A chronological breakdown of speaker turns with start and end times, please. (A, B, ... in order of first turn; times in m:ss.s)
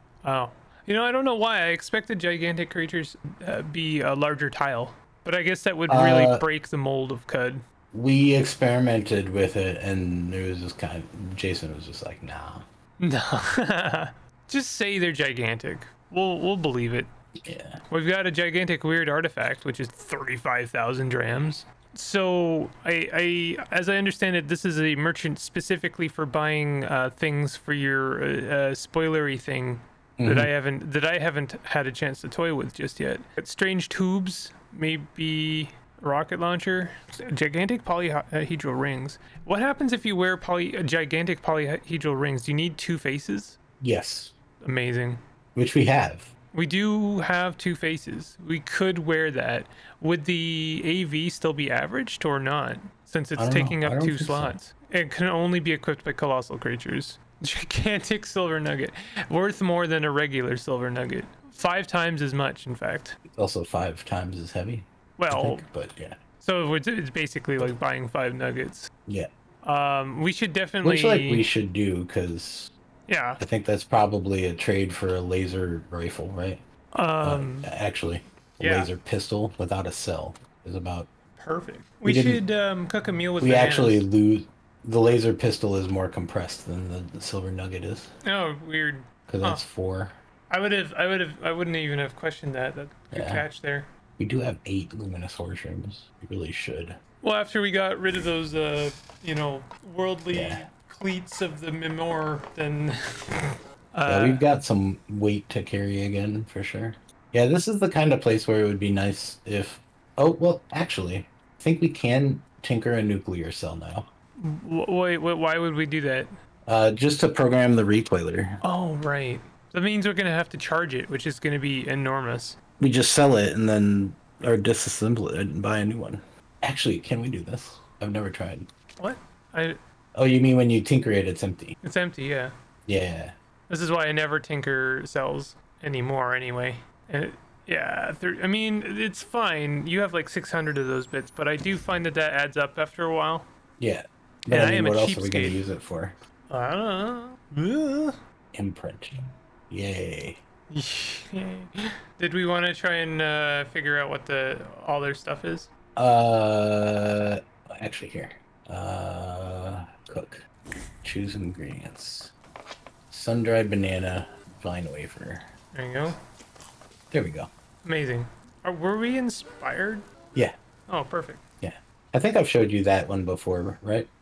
0:00.2-0:07.6 A
0:05.9-0:06.5 B
0:07.9-0:12.6 B
0:13.0-0:17.1 A
0:17.4-0:17.8 B
0:17.9-0:43.6 A
0:30.2-0:30.5 B
0:43.8-0:44.3 B
0:44.6-0:45.2 A
0:45.6-0:46.3 B
0:46.5-1:03.2 A
0:53.4-0:54.6 B
1:03.3-1:06.2 B
1:05.2-1:05.7 A
1:06.4-1:08.9 A
1:09.6-1:11.5 A
1:10.8-1:12.7 B
1:13.1-1:13.4 A
1:13.4-1:16.6 B
1:16.9-1:17.7 A
1:17.2-1:21.1 B
1:18.6-1:18.9 A
1:21.4-1:24.1 A
1:22.0-1:22.4 B
1:23.4-1:28.1 B
1:28.2-1:29.7 A
1:29.3-1:30.2 B
1:30.5-1:33.9 A
1:33.1-1:33.4 B
1:34.2-1:37.0 B
1:37.2-1:44.4 A
1:40.3-1:40.7 B
1:44.1-1:54.1 B
1:54.4-1:56.3 A
1:56.6-1:58.6 B
1:58.6-2:02.6 A
2:02.8-2:08.7 B
2:09.0-2:09.8 A
2:10.2-2:11.8 B
2:11.8-2:12.5 A
2:12.9-2:13.4 B
2:13.7-2:23.5 A
2:23.8-2:26.2 B
2:24.5-2:25.6 A
2:26.5-2:28.2 A
2:28.5-2:29.2 B
2:29.7-2:30.4 B
2:30.7-2:35.7 A
2:36.0-2:40.4 B
2:41.0-2:42.3 B
2:43.1-2:45.5 B
2:45.7-2:46.2 A
2:47.1-2:47.5 B
2:47.8-2:50.0 A
2:50.9-2:51.4 A
2:51.6-2:54.1 B